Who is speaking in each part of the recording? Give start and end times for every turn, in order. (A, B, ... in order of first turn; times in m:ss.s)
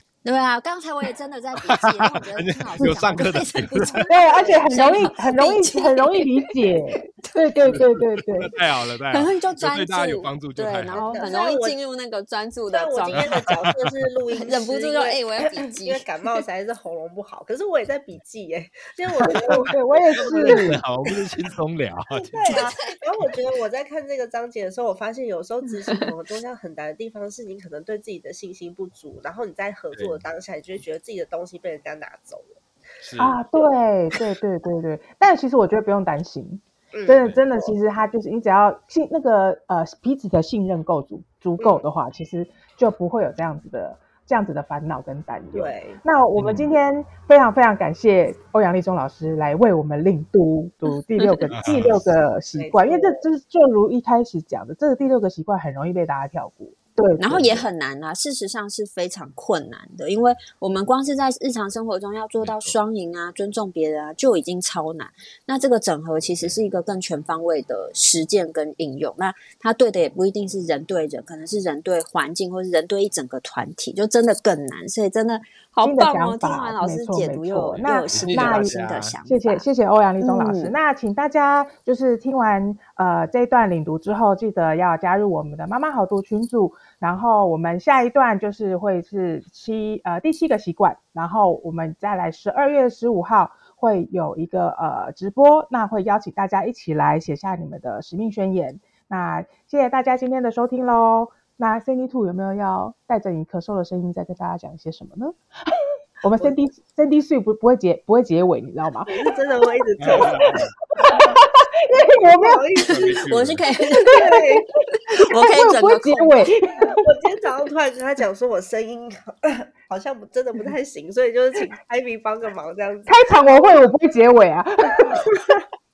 0:00.2-0:06.3 A
0:01.7-0:04.1 B
0:04.1-0:08.5 C
0:07.2-0:07.8 A
0:07.7-0:11.0 B
0:09.1-0:13.4 A
0:11.0-0:11.3 C
0:11.1-0:11.8 D
0:12.7-0:20.7 D
0:13.1-0:13.9 B
0:14.4-0:16.1 A
0:19.2-0:20.8 C
0:20.1-0:22.7 B
0:22.3-0:32.6 D
0:22.5-0:22.9 A
0:29.9-0:30.2 B
0:33.0-0:33.4 B
0:33.2-0:57.6 C
0:36.9-0:37.2 D
0:37.1-0:37.4 B
0:45.5-0:46.0 D
0:46.4-0:46.7 B
0:51.6-0:52.0 B
0:52.6-0:53.2 D
0:57.2-1:19.7 A
1:02.4-1:02.8 B
1:15.8-1:49.2 C
1:18.1-1:19.2 B
1:20.2-1:20.8 A
1:49.1-1:50.5 D
1:50.0-1:50.6 B
1:50.1-1:52.6 C
1:52.3-1:53.3 D
1:52.9-1:53.6 B
1:52.9-1:54.2 A
1:54.0-1:54.6 C
1:54.1-1:54.7 D
1:55.1-1:56.5 A
1:55.2-1:57.0 C
1:56.9-2:03.2 D
2:03.1-2:05.3 C
2:05.1-2:05.6 D